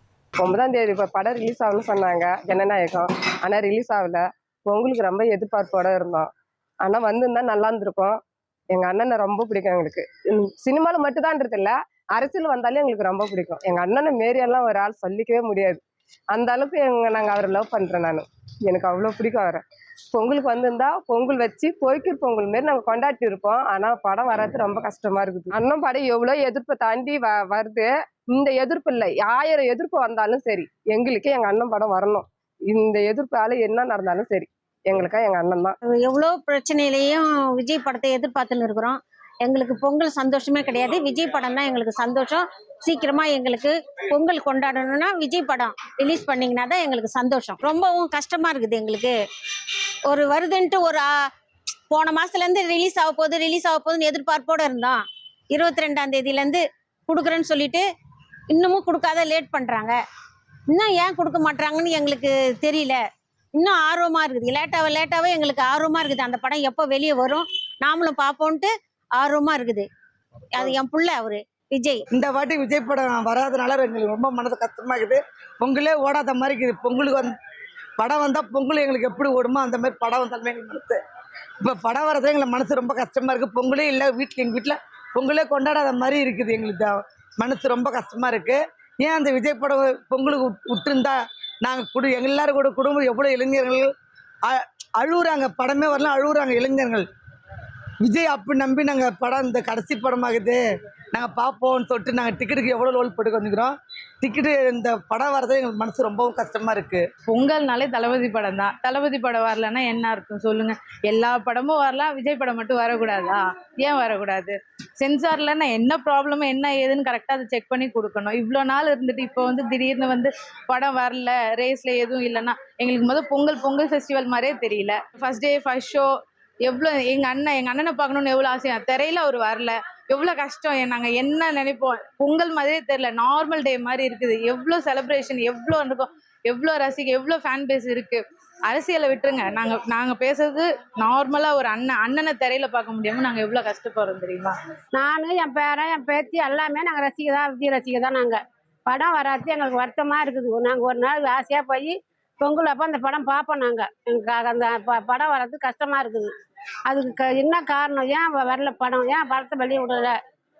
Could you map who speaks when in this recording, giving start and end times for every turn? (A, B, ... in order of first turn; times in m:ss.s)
0:00.4-0:06.3 A
0:06.8-0:08.2 A
0:08.7-0:15.8 A
0:16.3-0:19.6 A
0:20.1-0:35.8 A
0:36.1-0:49.1 B
0:50.1-0:51.0 B
0:51.9-0:55.0 B
0:55.5-0:56.5 B
0:57.1-0:57.8 B
0:58.5-0:59.9 B
1:00.7-1:02.9 B
1:03.6-1:04.0 B
1:04.0-1:07.1 C
1:04.8-1:08.6 B
1:09.2-1:09.8 B
1:11.0-1:11.3 C
1:12.1-1:17.3 D
1:18.0-1:21.0 D
1:21.6-1:33.9 D
1:34.4-1:37.0 D
1:38.0-1:40.6 D
1:41.1-1:47.0 D
1:47.3-2:06.1 E
2:06.6-2:24.5 E
2:24.9-2:36.3 C
2:36.9-2:40.2 C